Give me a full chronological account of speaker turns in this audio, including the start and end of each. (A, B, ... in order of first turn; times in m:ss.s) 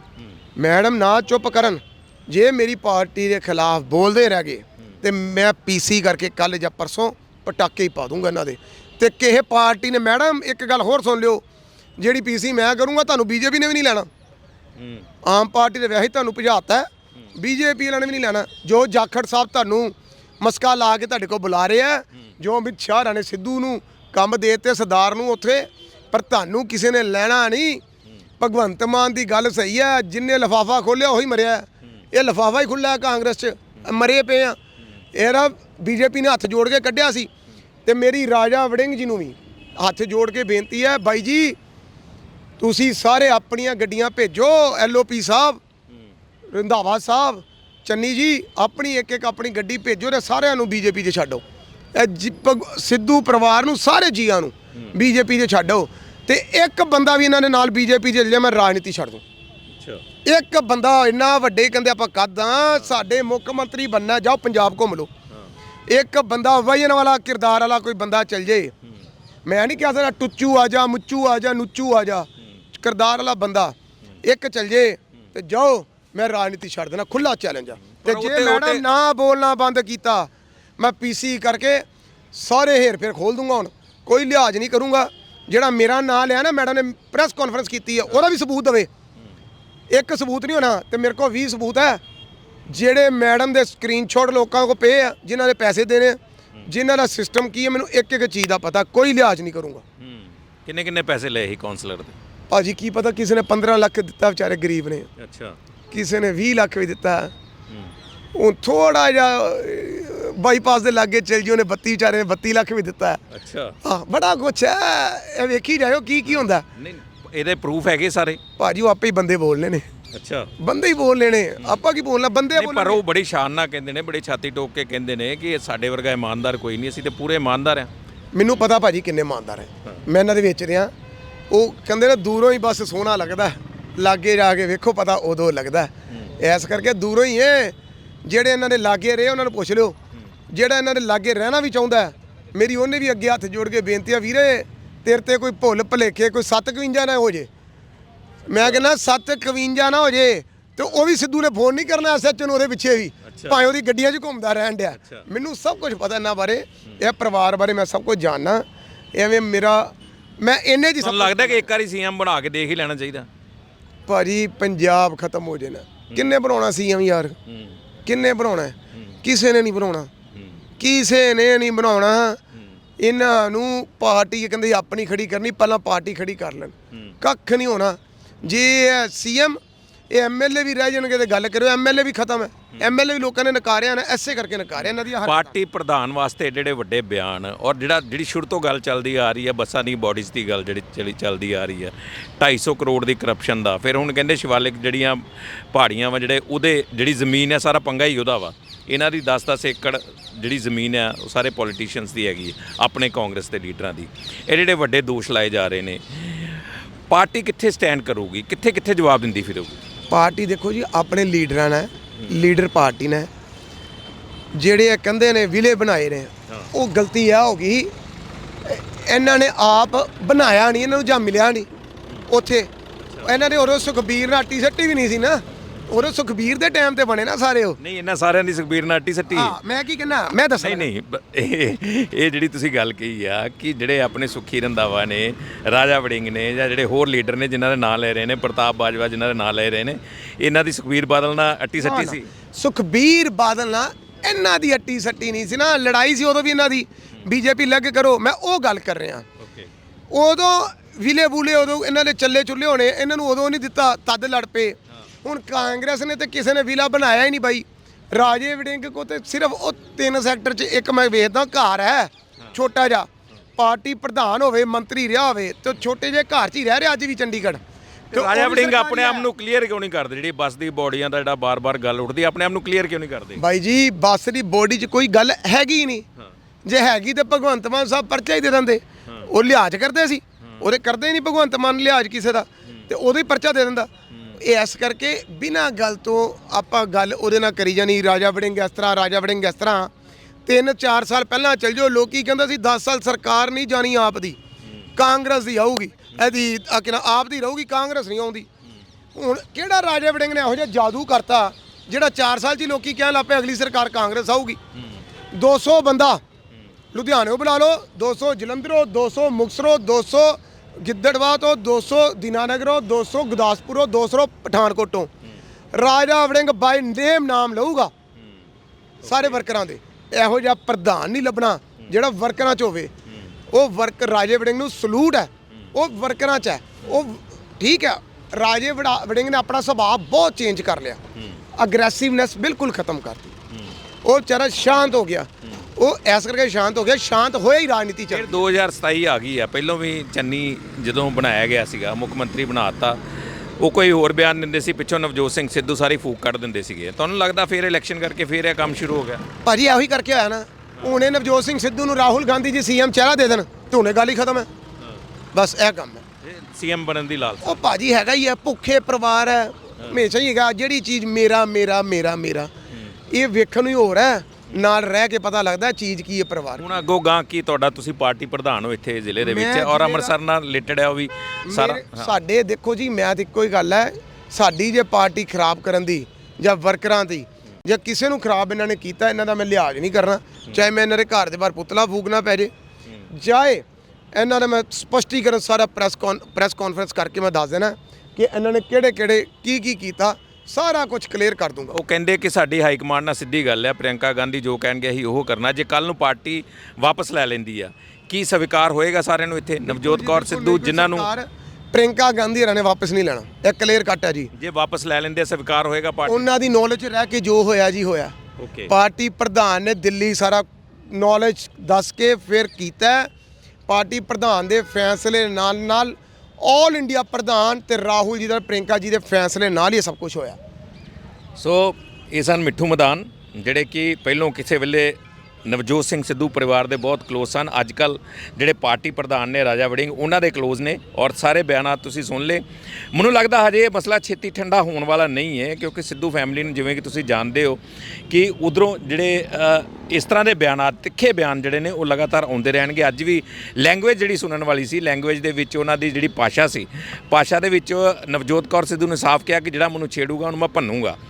0:00.6-0:11.4 A
0:12.0-0:14.1 A
0:14.8-0:15.1 B
0:15.2-0:27.8 A
0:28.4-0:34.6 A
0:35.1-0:37.3 A
0:37.8-0:41.6 A
0:42.6-0:45.6 A
0:46.5-0:51.4 A
0:52.0-0:59.2 A
0:59.7-1:00.0 B
1:00.2-1:05.1 A
1:05.9-1:08.7 A
1:09.5-1:28.9 A
1:17.9-1:18.8 B
1:29.9-1:32.0 A
1:32.7-1:39.8 A
1:40.0-1:42.2 B
1:42.5-1:45.1 A
1:45.2-1:45.6 B
1:45.9-1:47.3 A
1:48.3-1:53.2 A
1:53.3-1:53.8 B
1:53.8-1:56.6 A
1:56.3-1:58.4 B
1:58.6-1:59.9 A
2:00.1-2:00.5 B
2:00.6-2:03.0 A
2:02.6-2:07.9 B
2:08.4-2:10.9 A
2:11.5-2:17.8 A
2:18.3-2:20.0 A
2:20.5-2:27.5 A
2:28.5-2:28.8 B
2:28.5-2:41.7 A
2:33.3-2:33.6 B
2:41.0-2:43.3 B
2:44.1-2:47.4 A
2:47.5-2:47.8 B
2:48.1-2:50.1 A
2:50.8-2:52.4 A
2:53.0-2:59.6 A
3:00.1-3:05.6 A
3:04.8-3:29.8 B
3:30.1-3:33.3 A
3:34.6-3:37.9 A
3:38.6-3:41.7 A
3:42.3-3:42.7 A
3:43.0-3:43.3 B
3:43.2-3:47.8 A
3:47.8-3:49.6 B
3:49.3-3:50.9 A
3:50.6-4:02.3 B
4:01.8-4:09.3 A
4:09.4-4:09.7 B
4:10.1-4:27.6 A
4:28.1-4:29.3 A
4:28.1-4:33.4 B
4:33.4-4:36.0 A
4:36.6-4:49.9 A
4:44.1-4:44.4 B
4:50.5-4:54.4 A
4:55.0-4:58.5 A
4:59.2-5:04.6 A
5:05.3-5:06.2 A
5:06.9-5:15.1 A
5:15.7-5:17.9 A
5:19.0-5:19.4 B
5:19.0-5:22.9 A
5:23.5-5:31.0 A
5:31.6-5:33.4 A
5:34.0-5:38.4 A
5:38.1-5:43.0 B
5:43.6-5:49.3 B
5:49.4-5:54.5 A
5:55.3-5:56.0 A
5:56.2-5:57.6 B
5:57.4-6:02.5 A
6:03.1-6:06.6 A
6:06.6-6:12.1 B
6:09.2-6:10.1 A
6:11.5-6:22.5 A
6:23.1-6:31.8 A
6:31.7-6:41.1 B
6:39.6-6:44.3 A
6:44.3-6:46.3 B
6:46.1-6:48.1 A
6:48.4-6:48.7 B
6:48.7-6:53.1 A
6:53.7-7:00.4 A
7:01.4-7:12.4 B
7:12.9-7:31.0 B